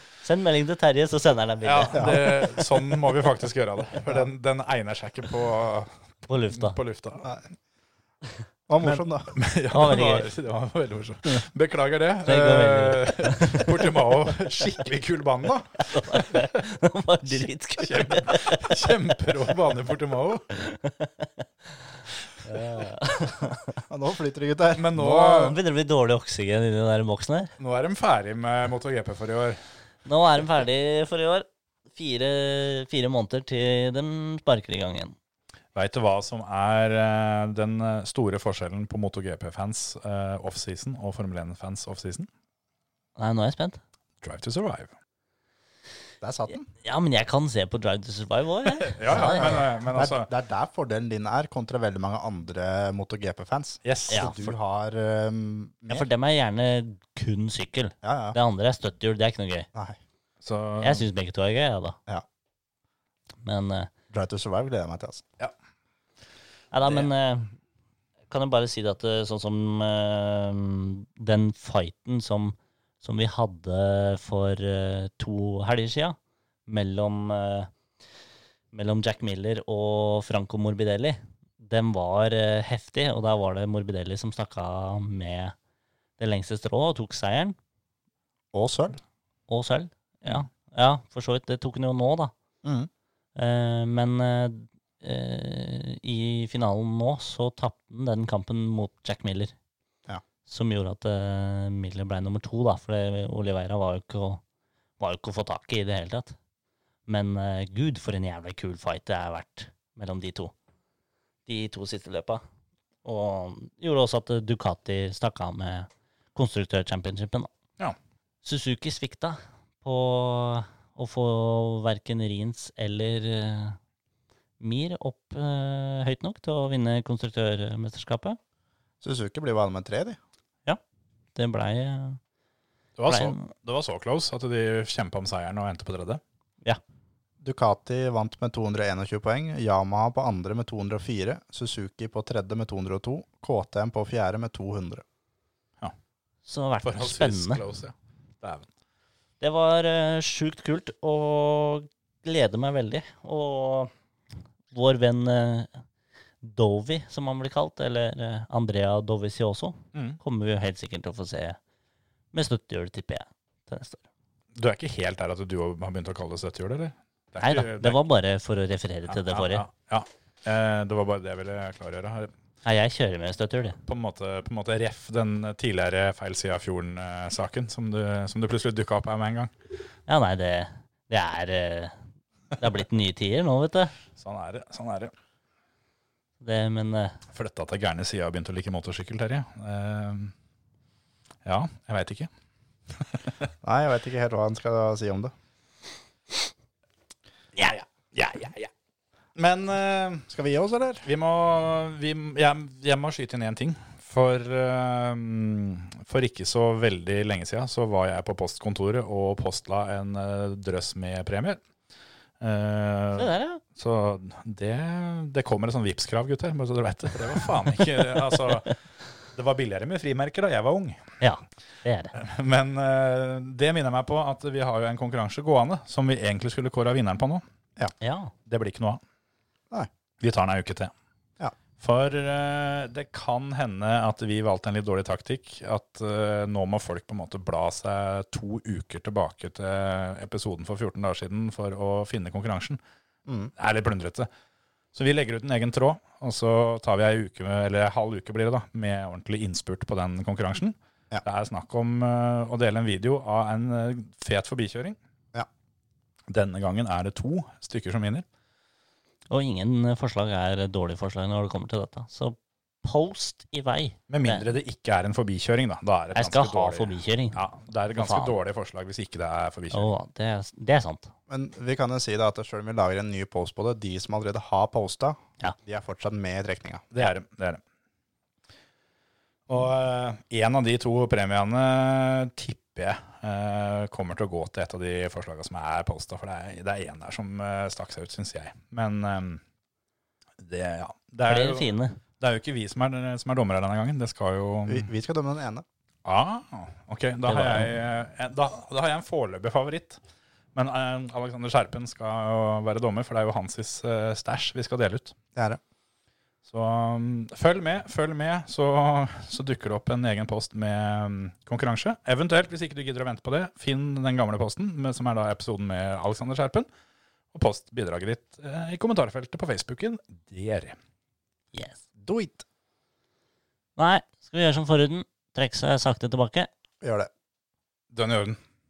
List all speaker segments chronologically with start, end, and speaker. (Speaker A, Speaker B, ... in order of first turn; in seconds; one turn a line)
Speaker A: 0.2-2.3
Speaker B: 1.6-5.9
Speaker C: 1.9-2.3
Speaker A: 6.3-6.8
Speaker B: 6.5-7.3
Speaker C: 8.7-9.3
Speaker B: 8.8-16.4
Speaker A: 9.7-10.3
Speaker A: 12.3-13.7
Speaker A: 15.9-18.9
Speaker B: 17.8-20.4
Speaker A: 20.5-21.8
Speaker A: 22.4-23.8
Speaker C: 23.9-24.9
Speaker B: 24.8-25.6
Speaker A: 25.0-27.5
Speaker B: 27.6-29.6
Speaker A: 30.1-35.2
Speaker B: 35.8-42.3
Speaker A: 43.2-43.8
Speaker B: 44.2-44.9
Speaker C: 46.2-46.6
Speaker A: 46.5-49.6
Speaker B: 48.9-50.3
Speaker C: 49.1-56.1
Speaker B: 53.8-54.3
Speaker A: 54.1-54.6
Speaker A: 55.9-59.7
Speaker C: 58.0-58.4
Speaker C: 59.7-60.0
Speaker B: 60.4-61.0
Speaker A: 60.8-62.0
Speaker A: 63.4-63.9
Speaker C: 64.1-65.2
Speaker A: 66.7-67.5
Speaker A: 68.3-77.7
Speaker A: 78.7-85.5
Speaker A: 86.2-87.6
Speaker C: 88.5-89.0
Speaker A: 89.5-92.3
Speaker C: 92.6-92.9
Speaker A: 93.4-99.5
Speaker A: 100.5-104.4
Speaker A: 105.0-106.4
Speaker A: 107.1-110.5
Speaker A: 111.5-112.4
Speaker A: 113.0-117.5
Speaker A: 118.4-123.8
Speaker A: 124.6-128.4
Speaker C: 129.0-130.2
Speaker A: 131.3-132.2
Speaker B: 133.0-136.2
Speaker A: 133.1-133.5
Speaker C: 137.4-145.0
Speaker A: 146.5-147.6
Speaker B: 146.8-148.7
Speaker A: 149.4-153.9
Speaker A: 154.7-155.8
Speaker A: 156.4-161.6
Speaker B: 159.9-160.2
Speaker A: 162.3-164.1
Speaker B: 164.6-168.0
Speaker A: 167.4-169.7
Speaker B: 169.1-172.3
Speaker A: 172.7-173.8
Speaker B: 173.8-179.5
Speaker A: 180.1-182.0
Speaker A: 182.6-183.9
Speaker B: 184.2-185.1
Speaker A: 186.4-187.2
Speaker B: 187.3-190.3
Speaker B: 191.4-192.3
Speaker C: 193.6-195.3
Speaker B: 197.6-198.7
Speaker B: 199.4-200.3
Speaker C: 200.3-201.1
Speaker B: 201.1-211.6
Speaker B: 212.4-218.8
Speaker A: 213.2-213.6
Speaker B: 219.3-221.1
Speaker A: 221.2-222.2
Speaker B: 222.2-227.4
Speaker A: 228.0-228.3
Speaker B: 228.5-229.0
Speaker B: 230.2-230.9
Speaker B: 231.8-242.8
Speaker C: 243.3-243.5
Speaker B: 243.6-244.3
Speaker B: 244.9-255.0
Speaker B: 256.3-258.2
Speaker A: 259.3-264.5
Speaker B: 264.1-269.9
Speaker A: 266.1-267.4
Speaker A: 267.9-268.4
Speaker A: 269.7-271.1
Speaker C: 271.3-276.9
Speaker B: 276.9-277.6
Speaker B: 279.5-289.4
Speaker B: 290.4-294.9
Speaker A: 291.3-292.0
Speaker C: 294.7-295.6
Speaker B: 296.1-300.0
Speaker A: 297.3-297.7
Speaker B: 300.6-305.1
Speaker C: 305.4-305.6
Speaker B: 306.5-316.7
Speaker B: 317.3-320.8
Speaker A: 321.5-321.8
Speaker C: 322.0-322.4
Speaker A: 323.8-326.5
Speaker C: 326.8-327.1
Speaker B: 327.9-328.4